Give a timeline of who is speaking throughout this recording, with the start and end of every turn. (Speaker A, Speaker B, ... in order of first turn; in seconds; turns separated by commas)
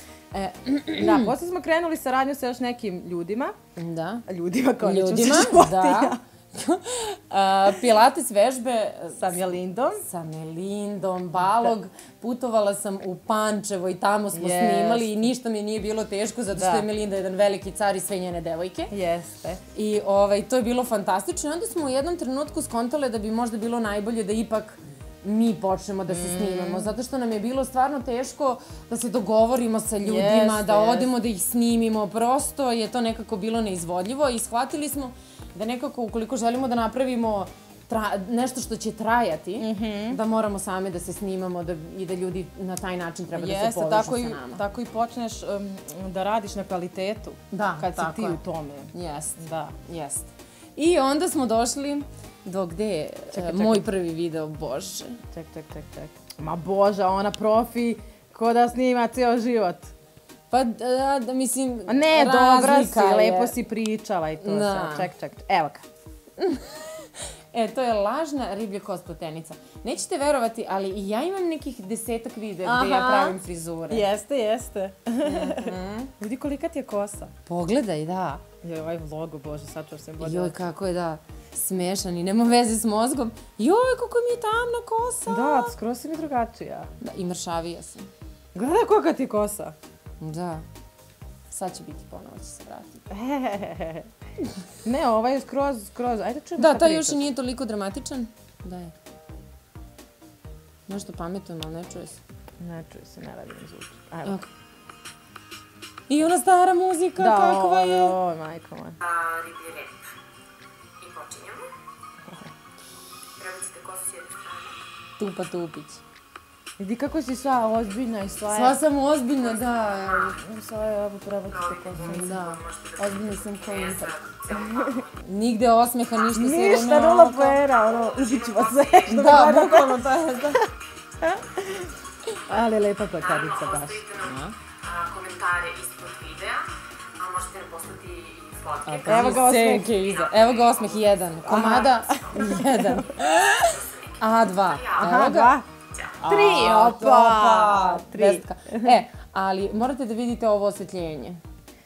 Speaker A: 0.3-1.3, Speaker B: 1.0-3.5, Speaker A: 3.8-4.2, Speaker B: 4.3-6.2, Speaker A: 4.8-9.4, Speaker B: 9.2-10.0, Speaker A: 10.0-18.9, Speaker B: 14.3-15.3, Speaker B: 16.6-16.9, Speaker B: 18.9-19.6, Speaker A: 19.7-44.6, Speaker B: 26.1-26.9, Speaker B: 30.0-31.1, Speaker B: 39.6-40.2, Speaker B: 43.3-49.8, Speaker A: 47.5-48.4, Speaker A: 48.9-55.2, Speaker B: 53.3-53.9, Speaker B: 55.3-59.9, Speaker A: 60.5-63.5, Speaker B: 61.9-65.9, Speaker A: 64.4-65.1, Speaker A: 66.4-66.9, Speaker A: 67.5-74.1, Speaker B: 72.6-73.4, Speaker B: 73.9-77.3, Speaker A: 75.2-76.1, Speaker A: 77.5-78.4, Speaker B: 78.6-80.5, Speaker A: 80.2-85.7, Speaker B: 85.3-86.9, Speaker A: 87.0-88.1, Speaker B: 88.5-89.8, Speaker A: 90.2-90.6, Speaker A: 91.5-93.0, Speaker B: 93.1-94.1, Speaker B: 94.8-97.2, Speaker A: 96.6-98.9, Speaker A: 100.9-102.2, Speaker B: 102.6-104.4, Speaker A: 106.1-108.2, Speaker B: 107.2-109.0, Speaker C: 109.1-109.8, Speaker A: 109.2-109.8, Speaker A: 111.0-111.6, Speaker C: 111.2-111.5, Speaker C: 113.4-114.7, Speaker A: 115.2-116.0, Speaker B: 116.8-118.8, Speaker A: 118.5-120.4, Speaker B: 120.3-122.6, Speaker A: 122.0-124.3, Speaker C: 122.6-125.1, Speaker B: 124.5-125.0, Speaker A: 125.2-127.6, Speaker B: 126.3-130.6, Speaker C: 128.0-129.0, Speaker A: 129.1-130.6, Speaker B: 131.2-131.9, Speaker B: 132.5-134.1, Speaker C: 133.5-134.2, Speaker A: 134.2-134.6, Speaker C: 134.8-136.6, Speaker C: 137.2-139.2, Speaker A: 138.8-143.2, Speaker B: 139.0-140.0, Speaker C: 140.3-140.8, Speaker B: 141.5-143.7, Speaker A: 144.2-145.6, Speaker B: 144.9-145.7, Speaker A: 146.2-151.4, Speaker B: 146.2-148.9